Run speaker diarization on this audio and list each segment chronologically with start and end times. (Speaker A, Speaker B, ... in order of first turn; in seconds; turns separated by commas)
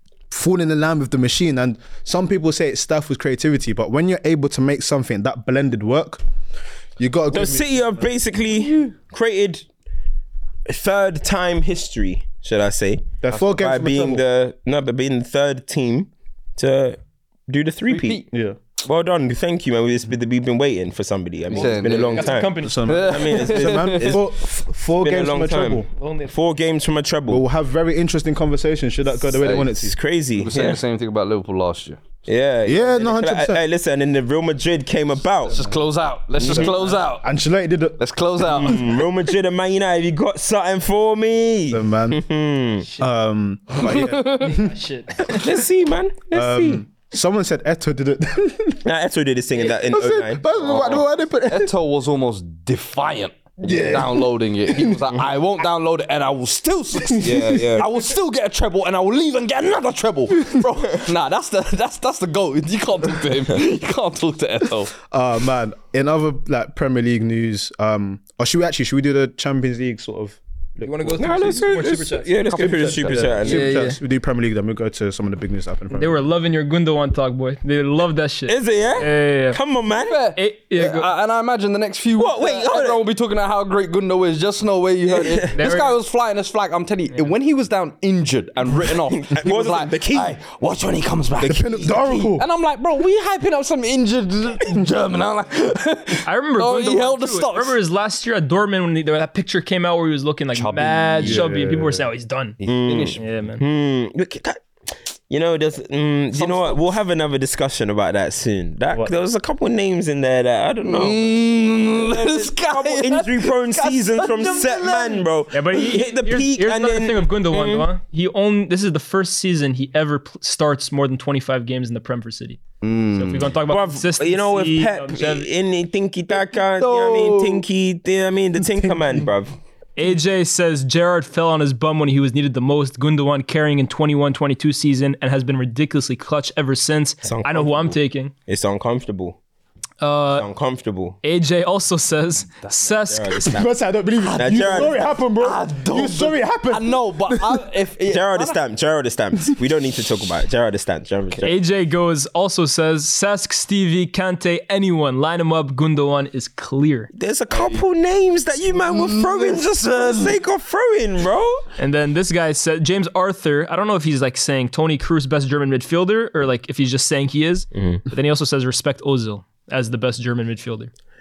Speaker A: 0.3-6.2, Speaker A: 7.0-8.1, Speaker B: 7.3-9.6, Speaker C: 8.6-8.9, Speaker B: 10.7-18.2, Speaker A: 13.2-14.2, Speaker C: 13.3-13.6, Speaker C: 17.9-18.2, Speaker A: 18.3-18.6, Speaker B: 18.8-24.3, Speaker C: 21.5-24.2, Speaker D: 21.5-23.1, Speaker A: 22.6-25.9, Speaker B: 24.9-27.4, Speaker D: 26.0-26.3, Speaker A: 27.3-30.0, Speaker C: 29.4-29.7, Speaker B: 29.6-30.8, Speaker C: 30.4-32.0, Speaker B: 32.3-35.6, Speaker A: 32.6-33.6, Speaker C: 35.5-37.3, Speaker B: 36.4-36.9, Speaker A: 36.4-38.0, Speaker C: 38.0-39.0, Speaker B: 38.5-42.8, Speaker A: 41.7-42.2, Speaker A: 43.0-44.7, Speaker C: 43.8-44.6, Speaker D: 44.4-45.4, Speaker B: 45.2-46.8, Speaker A: 46.3-48.8, Speaker B: 48.8-50.4, Speaker A: 49.9-51.7, Speaker C: 50.6-64.9, Speaker A: 53.6-55.0, Speaker A: 57.0-57.8, Speaker B: 57.2-57.9, Speaker A: 65.1-71.3, Speaker D: 70.8-74.0, Speaker B: 71.2-73.7, Speaker C: 72.5-73.6, Speaker A: 72.6-76.2, Speaker D: 75.9-79.6, Speaker B: 78.5-80.2, Speaker C: 80.1-97.8, Speaker D: 80.3-81.1, Speaker B: 82.2-83.0, Speaker B: 85.1-85.5, Speaker D: 85.5-86.0, Speaker B: 89.0-90.4, Speaker A: 91.4-92.4, Speaker D: 96.2-102.6, Speaker C: 100.5-101.5, Speaker A: 101.2-102.1, Speaker C: 102.6-103.3, Speaker B: 102.7-104.6, Speaker D: 103.2-103.6, Speaker B: 105.3-111.4, Speaker C: 106.3-106.8, Speaker C: 110.8-115.2, Speaker B: 111.9-117.9, Speaker D: 115.5-122.6, Speaker C: 122.8-123.5, Speaker D: 123.1-125.5, Speaker B: 123.7-129.6, Speaker C: 126.8-127.6, Speaker A: 128.8-129.2, Speaker D: 130.0-138.3, Speaker B: 137.2-139.4, Speaker D: 140.0-140.4, Speaker B: 140.3-141.2, Speaker D: 141.2-143.5, Speaker C: 142.6-142.9, Speaker B: 143.1-143.7, Speaker A: 143.4-147.6, Speaker C: 144.2-148.6, Speaker B: 144.4-145.0, Speaker B: 148.1-151.6, Speaker D: 151.4-157.1, Speaker B: 157.1-161.6, Speaker C: 157.5-157.8, Speaker C: 158.8-160.3, Speaker D: 161.8-170.9, Speaker B: 167.7-168.0